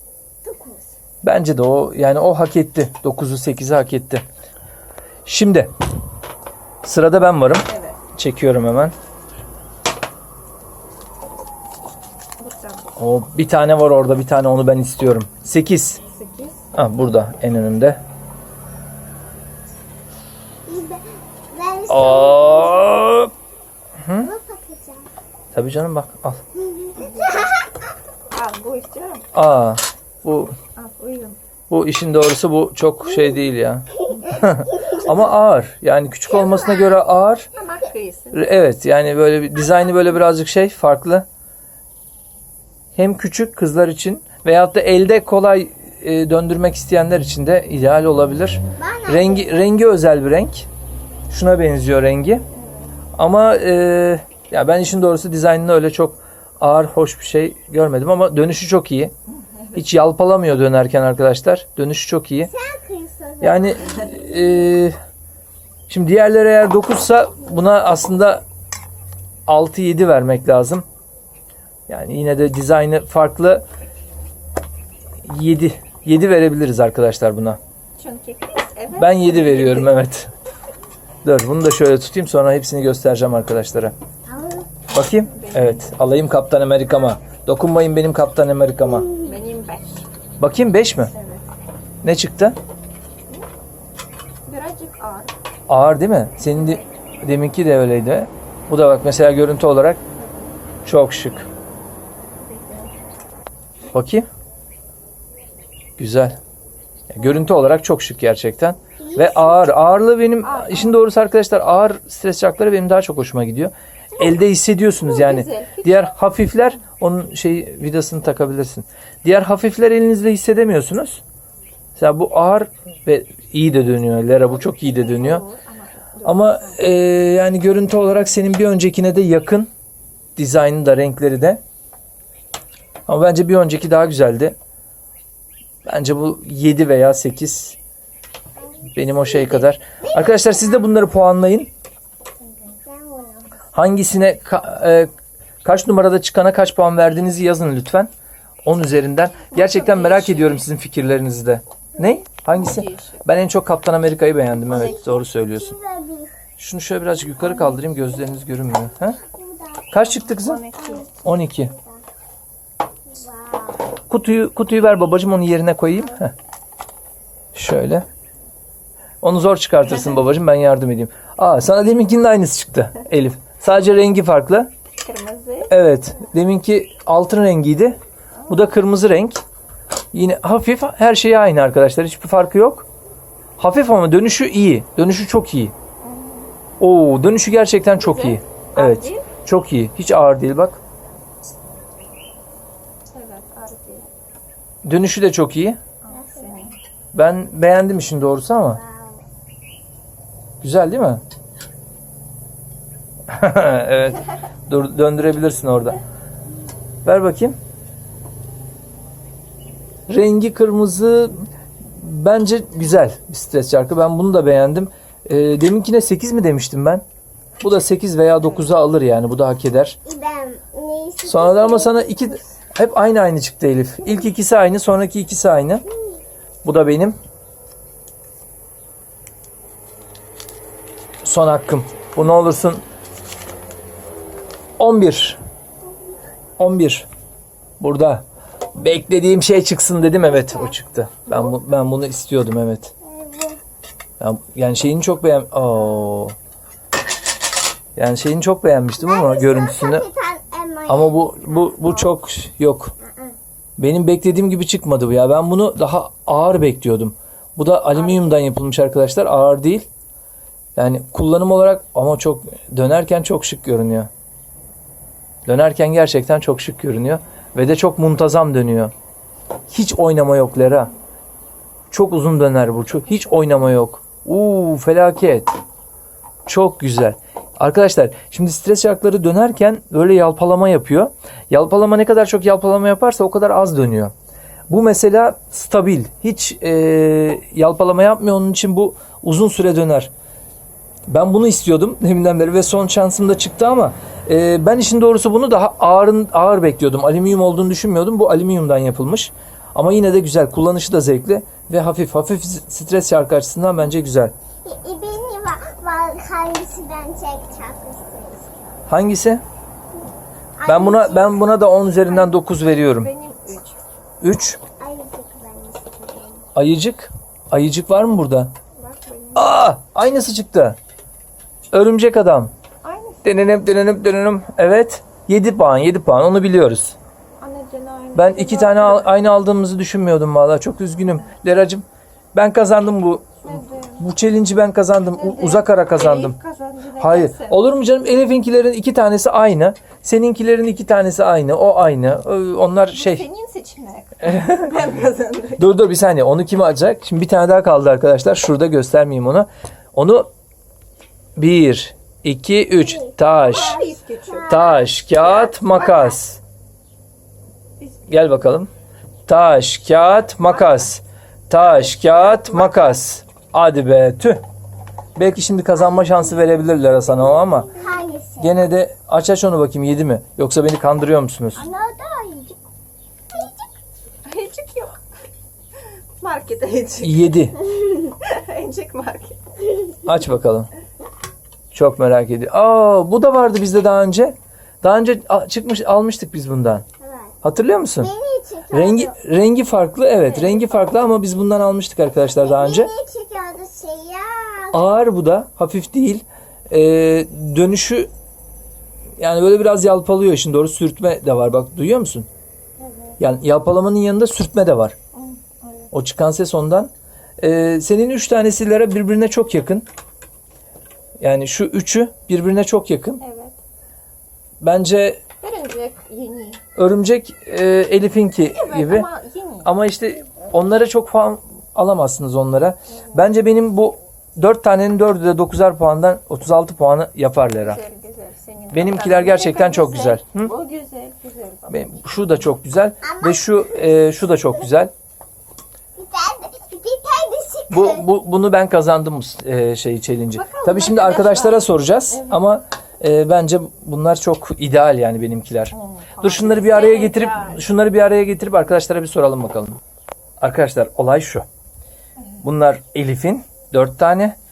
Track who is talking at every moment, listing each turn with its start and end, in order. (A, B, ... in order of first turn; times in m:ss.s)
0:00.4-0:00.9 A
0:01.2-0:04.2 B
0:05.2-0:05.7 B
0:06.8-0:08.9 B
0:07.7-0:08.0 C
0:12.4-0:12.9 C
0:13.0-0:16.0 B
0:16.1-0:16.6 C
0:16.7-0:18.0 B
0:20.6-0:23.0 A
0:21.9-0:23.3 B
0:24.0-0:24.3 B
0:24.2-0:25.1 A
0:25.5-0:26.4 B
0:26.7-0:27.1 A
0:26.9-0:27.5 C
0:28.3-0:29.2 C
0:29.3-0:30.6 B
0:30.8-0:31.4 C
0:31.7-0:37.5 B
0:36.3-0:36.9 A
0:37.6-0:38.4 C
0:38.3-0:41.2 B
0:43.0-0:50.7 B
0:48.8-0:49.6 A
0:51.3-0:52.4 B
0:52.5-0:52.9 C
0:53.2-0:59.1 B
0:59.7-1:02.5 B
1:02.4-1:04.7 A
1:03.4-1:05.0 B
1:05.9-1:08.4 B
1:09.5-1:10.8 B
1:11.9-1:13.6 B
1:15.2-1:17.6 B
1:18.0-1:19.9 C
1:18.9-1:20.3 B
1:21.2-1:23.9 B
1:24.3-1:24.7 A
1:24.9-1:29.1 B
1:25.3-1:25.9 C
1:28.9-1:29.4 A
1:29.2-1:30.0 C
1:30.4-1:31.1 B
1:31.1-1:31.4 C
1:32.0-1:32.6 B
1:34.4-1:35.3 C
1:35.7-1:40.0 B
1:40.2-1:40.5 C
1:40.8-1:41.5 B
1:43.9-1:44.3 B
1:46.0-1:46.4 B
1:47.1-2:01.2 B
1:49.0-1:49.8 A
1:50.4-1:51.0 C
1:54.1-1:56.1 C
2:02.0-2:05.4 B
2:04.6-2:06.8 C
2:06.2-2:09.7 B
2:10.4-2:11.6 B
2:13.1-2:14.5 B
2:15.8-2:17.8 B
2:18.8-2:19.1 A
2:18.9-2:21.7 B
2:20.0-2:20.9 A
2:22.8-2:23.6 A
2:23.7-2:25.1 B
2:25.6-2:28.1 B
2:28.6-2:35.8 B
2:29.5-2:30.6 C
2:32.5-2:33.2 C
2:34.7-2:36.4 A
2:36.6-2:39.2 B
2:39.1-2:40.0 A
2:39.9-2:40.7 B
2:40.0-2:41.1 C
2:40.8-2:42.0 A
2:41.2-2:41.7 B
2:43.1-2:44.0 A
2:44.1-2:46.3 B
2:47.5-2:48.1 B
2:49.2-2:54.7 B
2:55.0-2:55.7 C
2:55.7-2:59.4 B
2:58.4-2:58.7 C
3:00.1-3:02.9 B
3:03.6-3:05.7 B
3:06.0-3:06.5 C
3:06.8-3:10.8 B
3:08.0-3:09.3 C
3:13.1-3:14.0 C
3:14.8-3:15.8 B
3:16.0-3:16.8 C
3:16.1-3:16.7 A
3:17.1-3:18.8 B
3:18.7-3:19.3 A
3:20.6-3:21.2 B
3:23.3-3:26.0 B
3:27.0-3:27.6 B
3:30.1-3:37.0 B
3:37.6-3:40.0 B
3:40.0-3:42.4 A
3:41.2-3:45.8 B
3:46.6-3:47.2 B
3:51.2-3:52.8 B
3:54.8-3:55.4 B
3:56.6-3:57.1 B
3:57.8-4:02.9 B
4:03.0-4:03.6 A
4:04.2-4:06.3 B
4:08.0-4:10.1 B
4:09.0-4:12.0 A
4:10.9-4:12.9 B
4:13.0-4:13.4 A
4:13.8-4:19.8 B
4:20.8-4:24.1 B
4:25.4-4:28.9 B
4:29.7-4:30.9 B
4:31.9-4:35.5 B
4:36.4-4:44.1 B
4:44.7-4:50.1 B
4:51.1-5:04.3 B
5:04.6-5:08.8 A
5:08.9-5:09.4 B
5:10.6-5:12.4 A
5:10.6-5:13.1 B
5:12.9-5:13.8 C
5:14.2-5:14.6 B
5:14.8-5:16.5 A
5:16.5-5:18.5 B
5:18.8-5:19.6 C
5:19.3-5:20.8 B
5:21.7-5:22.5 B
5:22.8-5:23.2 C
5:23.2-5:27.0 B
5:27.4-5:29.2 C
5:28.1-5:36.4 B
5:33.4-5:34.0 C
5:35.2-5:37.6 C
5:37.0-5:43.2 B
5:42.9-5:45.8 C
5:44.2-5:44.7 B
5:45.6-5:50.3 B
5:51.4-5:53.8 B
5:52.7-5:54.9 A
5:53.4-5:56.2 C
5:54.4-5:56.4 B
5:58.1-5:58.7 B
5:59.3-6:04.4 B
6:00.4-6:00.9 C
6:02.4-6:02.7 C
6:05.2-6:07.7 B
6:07.4-6:08.7 A
6:08.4-6:11.6 B
6:11.5-6:12.6 A
6:13.3-6:13.7 A
6:14.2-6:15.0 C
6:16.2-6:19.8 C
6:17.0-6:17.6 B
6:20.0-6:20.7 B
6:21.7-6:26.8 B
6:27.0-6:27.3 A
6:27.4-6:28.1 B
6:28.0-6:29.2 A
6:28.7-6:32.9 B
6:30.2-6:31.0 C
6:32.3-6:34.9 A
6:34.7-6:38.1 B
6:39.2-6:42.3 B
6:42.8-6:43.1 C
6:43.2-6:44.9 B
6:45.1-6:45.9 C
6:45.9-6:49.8 B
6:51.2-6:53.2 B
6:53.2-6:53.6 C
6:54.6-6:55.2 B
6:55.4-6:56.6 C
6:56.8-6:59.1 B
6:58.4-6:59.7 C
6:59.6-7:07.8 B
7:02.9-7:03.3 C
7:07.6-7:11.9 C
7:08.7-7:10.5 B
7:11.7-7:14.9 B
7:13.0-7:13.6 A
7:16.0-7:18.1 A
7:17.7-7:29.8 B
7:20.3-7:22.6 C
7:25.7-7:27.6 C
7:30.4-7:31.4 B
7:32.4-7:34.4 B